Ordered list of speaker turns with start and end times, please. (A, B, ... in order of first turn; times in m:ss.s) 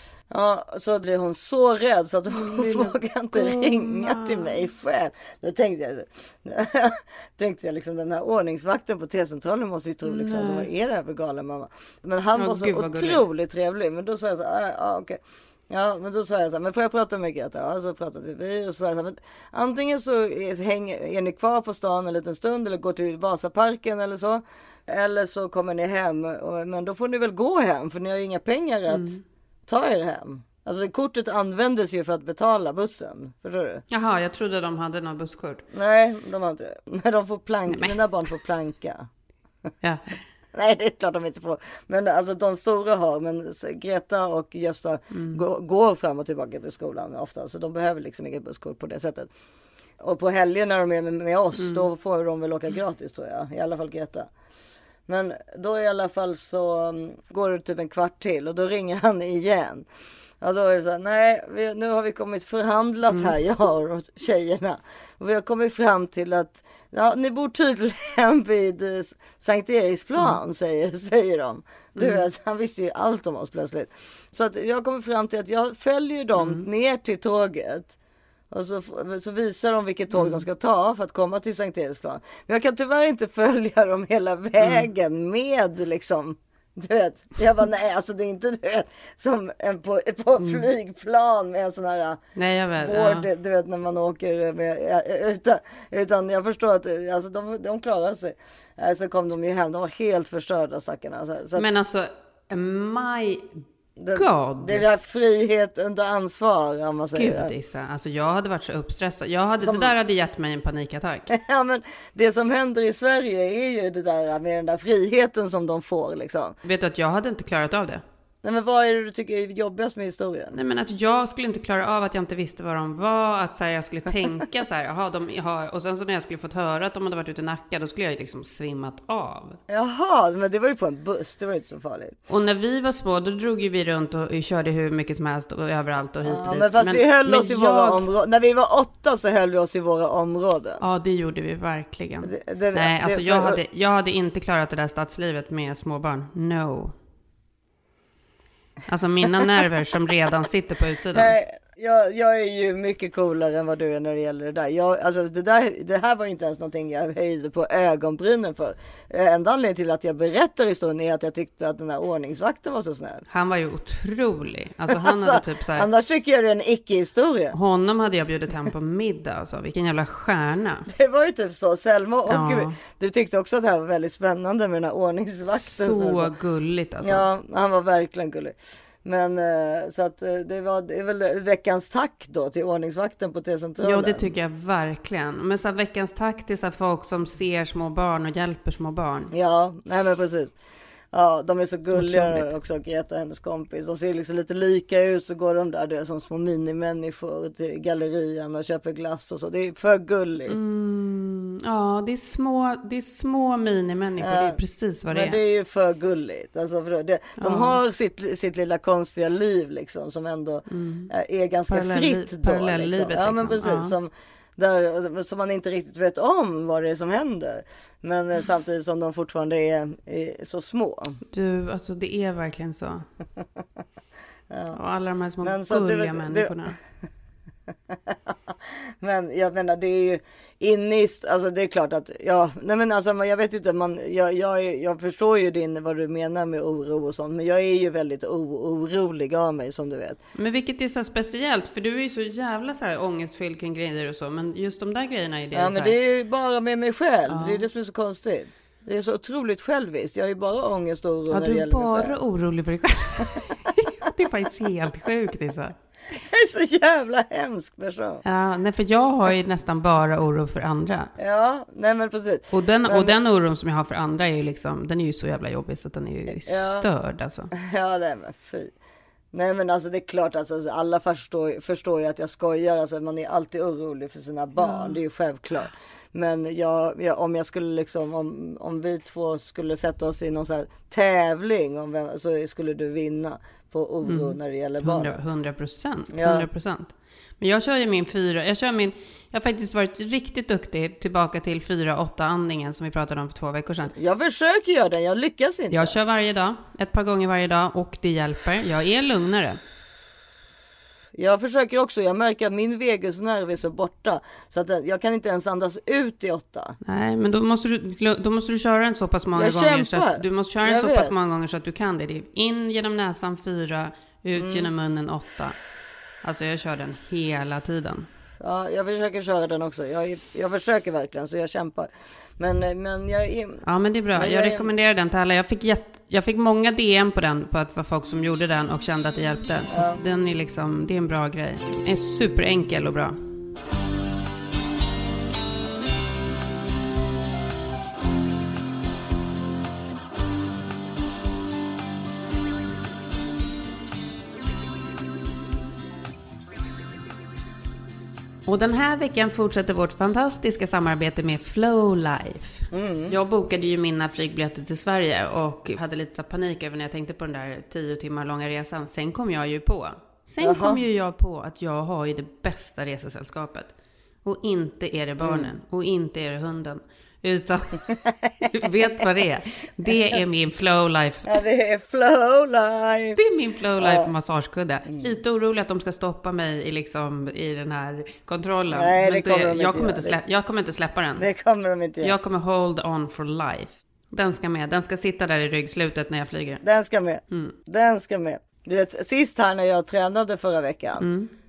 0:00.3-0:33.8 A
0:02.3-0:04.5 B
0:10.1-0:10.7 B
0:12.4-0:13.2 B
0:28.9-0:29.2 B
0:33.9-0:35.6 B
0:35.7-0:39.1 A
0:37.7-0:38.0 B
0:39.8-0:40.2 B
0:40.5-0:49.3 A
0:45.1-0:45.4 B
0:50.0-0:54.3 A
0:51.6-0:51.8 B
0:55.1-0:59.9 A
1:00.4-1:17.9 A
1:12.0-1:12.2 B
1:16.4-1:16.7 B
1:18.5-1:32.2 A
1:20.1-1:20.4 B
1:30.4-1:30.6 B
1:32.4-1:33.3 B
1:32.8-1:41.7 A
1:41.6-1:43.6 B
1:44.0-1:47.5 A
1:44.1-1:44.8 B
1:47.1-1:51.3 B
1:49.6-1:50.0 A
1:51.3-1:56.6 A
1:56.6-1:58.0 B
1:58.4-2:00.6 A
2:00.5-2:09.6 B
2:09.7-2:12.2 A
2:12.3-2:18.0 B
2:16.2-2:20.8 A
2:20.8-2:26.9 B
2:22.2-2:23.6 A
2:28.9-2:31.3 B
2:31.1-2:43.2 A
2:43.3-2:45.9 B
2:44.9-2:47.6 A
2:47.5-2:50.9 B
2:50.9-2:56.3 A
2:52.3-2:52.8 B
2:55.5-2:57.3 B
2:57.0-3:04.3 A
3:03.8-3:09.3 B
3:09.3-3:10.6 A
3:11.1-3:20.6 A
3:11.9-3:12.5 B
3:20.5-3:25.4 B
3:24.2-3:24.6 A
3:25.1-3:41.2 A
3:27.4-3:27.8 B
3:30.7-3:31.1 B
3:31.7-3:34.0 B
3:41.3-3:43.1 B
3:44.5-3:44.8 A
3:44.7-3:46.8 B
3:45.4-3:46.6 A
3:47.9-4:00.2 A
4:00.4-4:06.0 B
4:05.5-4:12.2 A
4:07.3-4:07.6 B
4:11.3-4:15.7 B
4:16.2-4:18.2 A
4:18.2-4:21.1 B
4:21.2-4:23.2 A
4:22.5-4:27.5 B
4:26.5-4:26.9 A
4:27.6-4:28.7 A
4:29.3-4:45.2 A
4:34.6-4:35.0 B
4:44.0-4:53.9 B
4:46.1-4:46.5 A
4:54.0-4:56.0 A
4:55.7-4:59.6 B
5:01.2-5:06.8 A
5:06.8-5:15.6 B
5:09.4-5:11.2 A
5:14.4-5:14.7 A
5:16.2-5:18.1 B
5:18.4-5:24.7 A
5:23.7-5:33.2 B
5:29.7-5:30.0 A
5:48.5-6:11.3 B
5:52.7-5:53.2 A
6:00.4-6:00.8 A
6:05.2-6:05.5 A
6:08.1-6:08.9 A
6:09.9-6:10.1 A
6:11.3-6:13.2 A
6:13.2-6:21.3 B
6:13.8-6:14.1 A
6:14.9-6:15.1 A
6:18.7-6:20.2 A
6:21.2-6:22.2 A
6:22.0-6:26.6 B
6:26.6-6:31.1 A
6:31.0-6:31.3 B